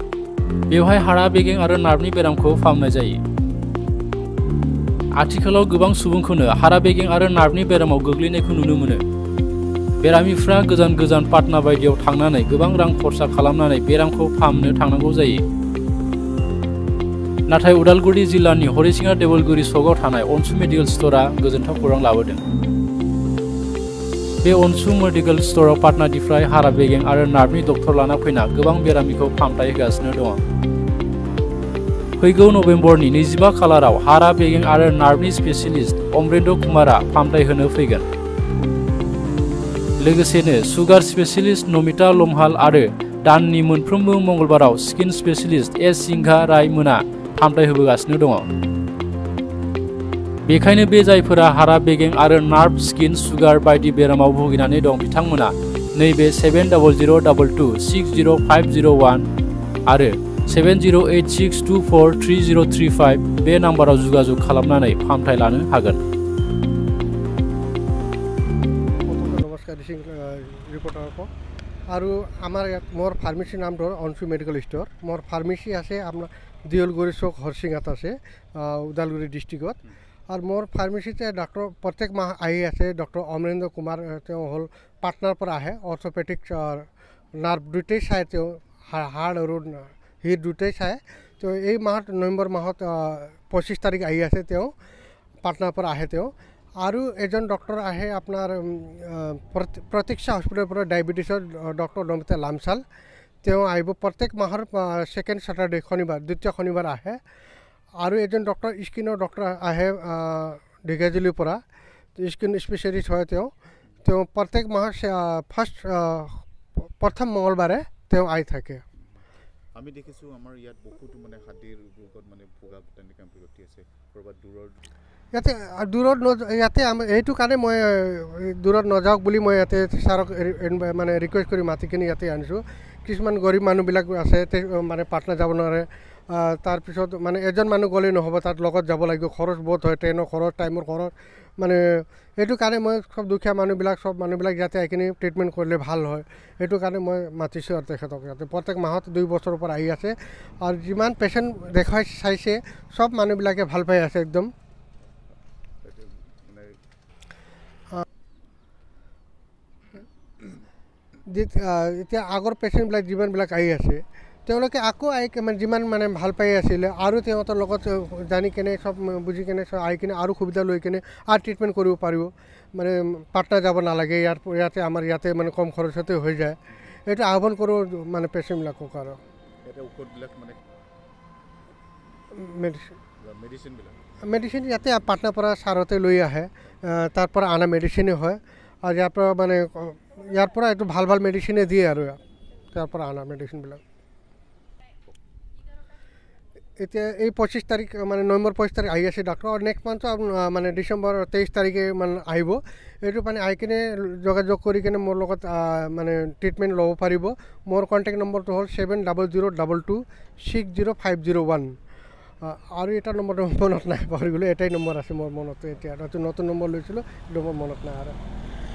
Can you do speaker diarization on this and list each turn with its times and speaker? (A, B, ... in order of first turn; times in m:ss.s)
0:00.7-0:03.2 A
0:05.2-0:09.0 A
0:10.0-0:15.4 A
0:17.5-0:22.4 A
0:24.4-0:30.4 A
0:32.2-0:38.1 A
0:40.0-0:48.5 A
0:50.5-0:59.3 A
0:59.9-1:06.0 A
1:09.1-1:11.3 B
1:11.9-1:34.7 B
1:35.4-1:42.8 B
1:43.4-1:47.2 B
1:48.0-1:51.6 B
1:52.2-1:53.5 B
1:54.0-1:58.8 B
1:59.8-2:04.8 C
2:05.3-2:34.5 B
2:35.8-2:36.8 C
2:41.3-2:59.2 B
2:59.6-3:00.6 C
3:02.3-3:03.0 B
3:03.2-3:04.0 C
3:04.2-3:12.2 B
3:12.7-3:13.8 B
3:16.8-3:31.7 B
3:32.4-3:38.2 B